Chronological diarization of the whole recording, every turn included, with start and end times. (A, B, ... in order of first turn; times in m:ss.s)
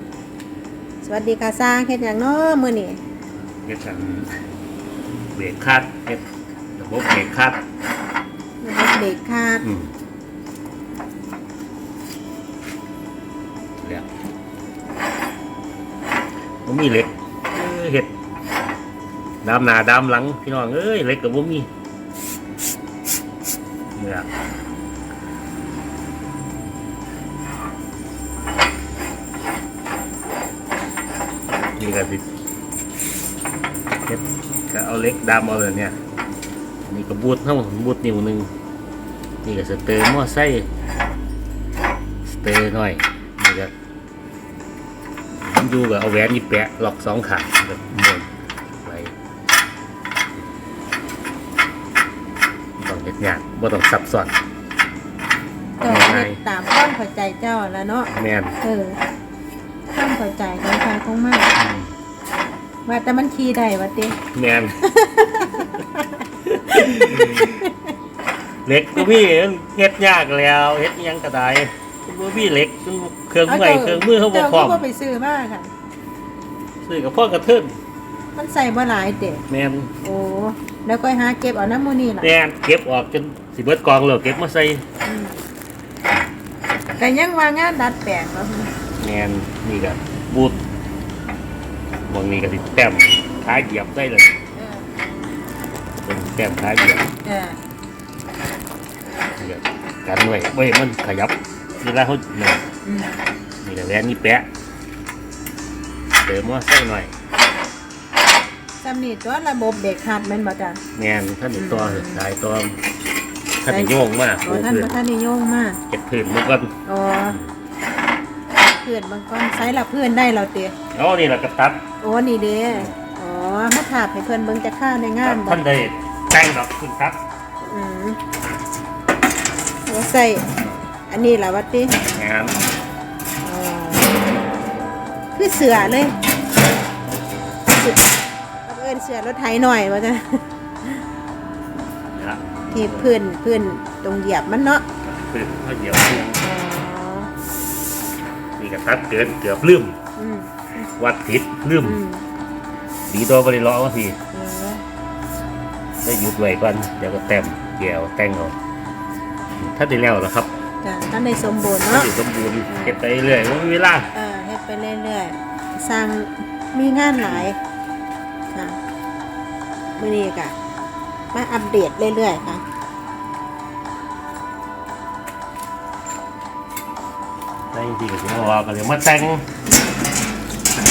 0:01.0-0:03.0 A
0:03.6-0:04.4 B
0:05.3-0:06.2 B
0:06.8-0:07.6 B
0:08.6-0:09.6 A
0:09.6-0:09.9 B
0:13.8-0:14.0 B
0:16.6-0:18.1 B
0:19.4-0:21.7 B
0:24.0-0:24.3 B
0:31.8-0:32.2 B
0:34.1-0:36.0 B
0:36.9-0:38.5 B
0:39.4-0:40.7 B
0:42.2-0:43.7 B
0:45.4-0:48.3 B
0:48.8-0:49.1 B
0:52.8-0:54.3 B
0:55.8-0:58.1 A
0:55.8-0:56.4 B
0:58.1-0:58.6 B
0:58.6-0:59.0 A
0:59.9-1:01.5 A
1:01.6-1:01.9 B
1:02.8-1:04.2 A
1:04.3-1:04.8 B
1:04.8-1:06.2 A
1:06.4-1:07.6 B
1:06.7-1:07.8 A
1:08.6-1:14.8 B
1:13.4-1:15.7 A
1:16.8-1:17.7 B
1:18.3-1:19.4 A
1:19.5-1:19.9 B
1:20.0-1:22.3 A
1:22.2-1:24.8 B
1:25.0-1:25.3 A
1:27.0-1:28.7 A
1:29.0-1:30.6 B
1:32.0-1:34.3 B
1:34.6-1:35.0 A
1:36.0-1:37.1 B
1:37.2-1:37.6 A
1:39.4-1:42.6 B
1:42.8-1:43.2 A
1:43.6-1:44.5 B
1:46.2-1:47.1 B
1:48.8-1:50.8 A
1:50.9-1:52.8 B
1:51.6-1:52.2 A
1:53.6-1:55.0 B
1:53.7-1:55.8 A
1:55.9-1:56.7 B
1:56.8-1:57.4 A
1:58.5-2:00.7 A
2:00.9-2:01.8 B
2:02.0-2:05.6 A
2:05.2-2:07.2 B
2:07.7-2:08.2 A
2:09.8-2:12.0 A
2:12.0-2:12.6 B
2:13.4-2:14.2 A
2:15.3-2:16.1 A
2:17.7-2:18.0 A
2:18.6-2:21.0 A
2:22.1-2:23.1 B
2:22.7-2:24.8 A
2:25.0-2:26.4 B
2:26.4-2:27.3 A
2:28.6-2:30.0 B
2:30.2-2:30.5 A
2:31.0-2:32.0 B
2:31.8-2:32.2 A
2:33.1-2:34.2 B
2:34.3-2:34.8 A
2:36.0-2:38.6 B
2:39.6-2:40.5 B
2:40.8-2:42.1 A
2:41.8-2:44.1 B
2:42.7-2:43.0 A
2:44.1-2:47.6 A
2:48.5-2:48.8 A
2:50.0-2:50.5 A
2:51.3-2:52.6 A
2:57.7-2:59.4 B